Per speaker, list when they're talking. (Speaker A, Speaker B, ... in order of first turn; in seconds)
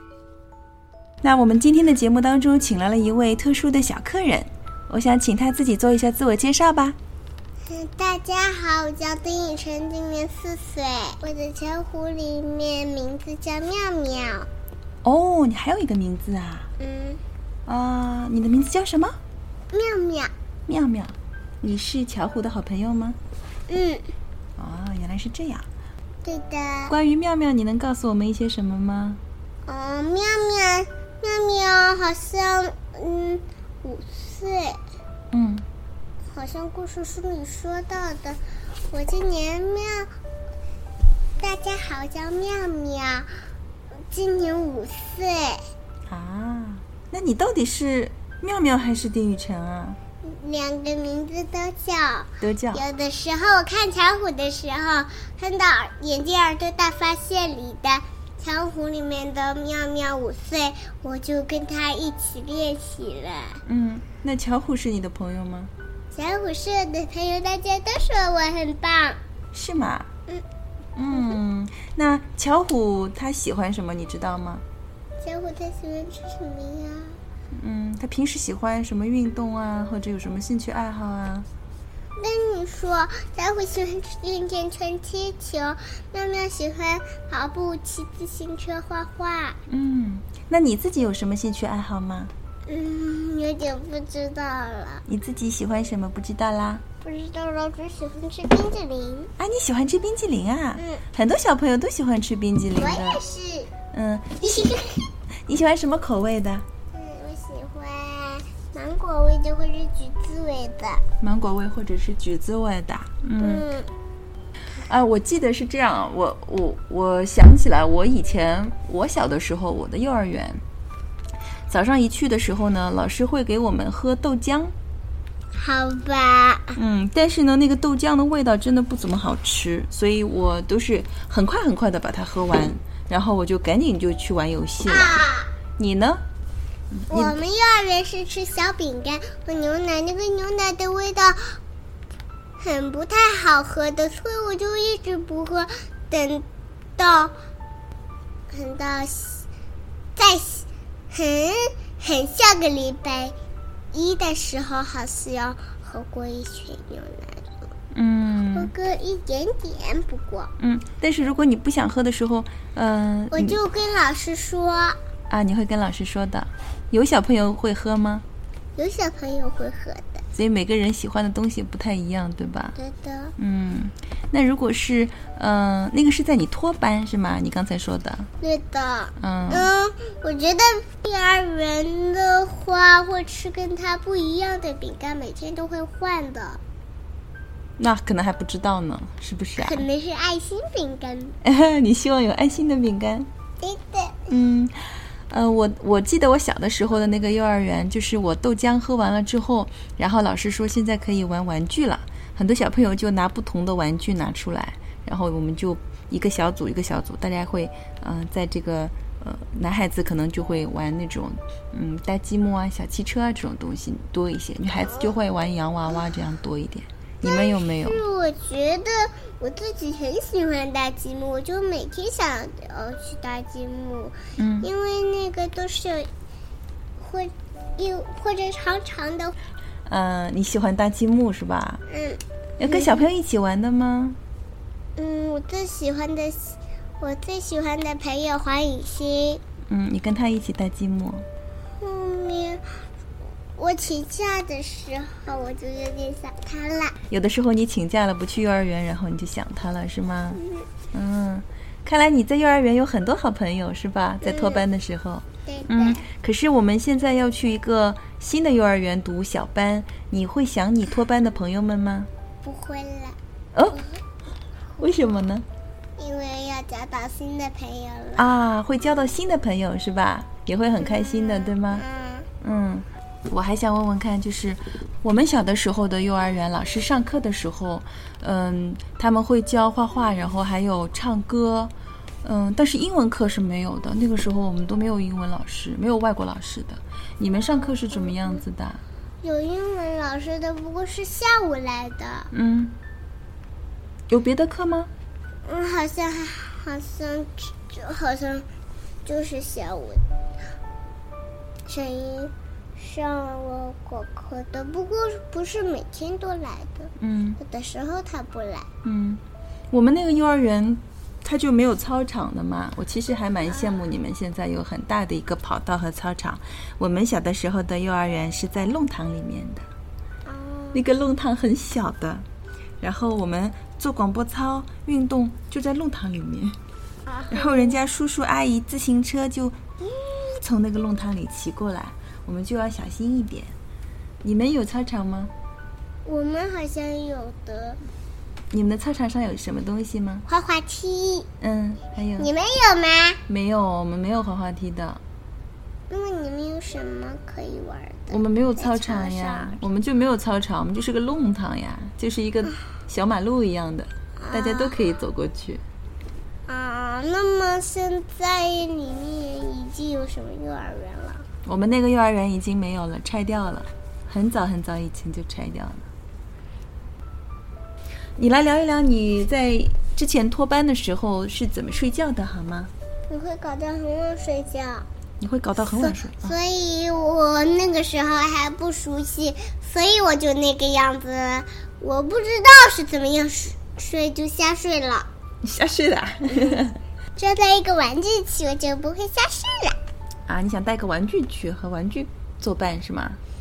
Speaker A: 1.2-7.0, 15.0-16.7, 17.7-19.2, 20.7-23.2, 24.6-25.7, 26.9-29.2, 35.3-35.7, 46.1-50.0, 52.4-52.8, 63.6-65.7, 69.5-70.1, 71.0-74.6, 77.5-81.5, 89.7-92.3, 95.1-96.8, 99.4-103.2, 103.9-106.7, 111.2-113.6, 114.9-120.6, 121.7-124.7, 126.8-135.2, 135.8-136.2, 136.9-137.4, 157.9-158.7, 160.6-163.6, 165.3-168.2, 170.3-172.8, 173.4-178.3, 179.2-179.7, 187.8-189.8, 191.4-193.3, 194.3-218.0, 224.4-224.7, 229.9-231.8, 232.6-234.2, 239.7-241.3, 247.1-250.4, 250.9-262.1, 263.5-263.8, 264.8-265.5, 268.2-271.8, 272.4-281.7, 282.2-288.8, 292.3-292.8, 294.1-294.9, 307.0-307.4, 308.8-319.6, 320.7-322.3, 322.8-326.6, 327.3-333.5, 334.2-335.3, 338.5-340.2, 341.4-342.3, 343.3-345.0, 348.1-355.6, 361.4-365.9, 368.2-372.7, 375.2-376.4, 385.4-386.8, 390.3-393.2
Speaker B: 7.7-14.5, 16.8-17.2, 19.7-20.3, 23.7-24.1, 26.2-26.9, 29.6-34.8, 36.3-40.1, 41.4-43.3, 44.1-45.6, 50.2-63.6, 66.1-69.2, 75.2-77.2, 82.2-89.6, 92.7-95.0, 97.0-99.3, 100.8-101.0, 102.8-103.7, 106.9-111.0, 113.4-113.9, 125.5-126.8, 134.8-135.5, 137.1-141.6, 142.6-146.5, 147.0-147.3, 148.5-149.5, 150.2-153.3, 153.9-157.5, 158.5-160.5, 163.3-165.0, 168.8-170.2, 172.8-173.3, 178.4-186.6, 189.6-191.4, 193.6-194.2, 214.8-215.1, 217.2-226.1, 227.0-229.3, 231.9-233.0, 235.0-239.4, 241.8-242.9, 243.6-246.9, 250.4-250.7, 254.2-254.6, 255.5-256.0, 262.4-263.2, 263.7-264.0, 266.0-268.3, 271.0-272.3, 289.2-292.3, 295.4-298.5, 299.1-300.0, 301.7-308.7, 320.3-320.9, 327.1-327.8, 336.1-337.8, 340.3-341.3, 342.2-343.2, 345.9-349.6, 354.2-354.8, 356.5-361.3, 373.1-374.9, 375.8-385.1, 387.2-389.8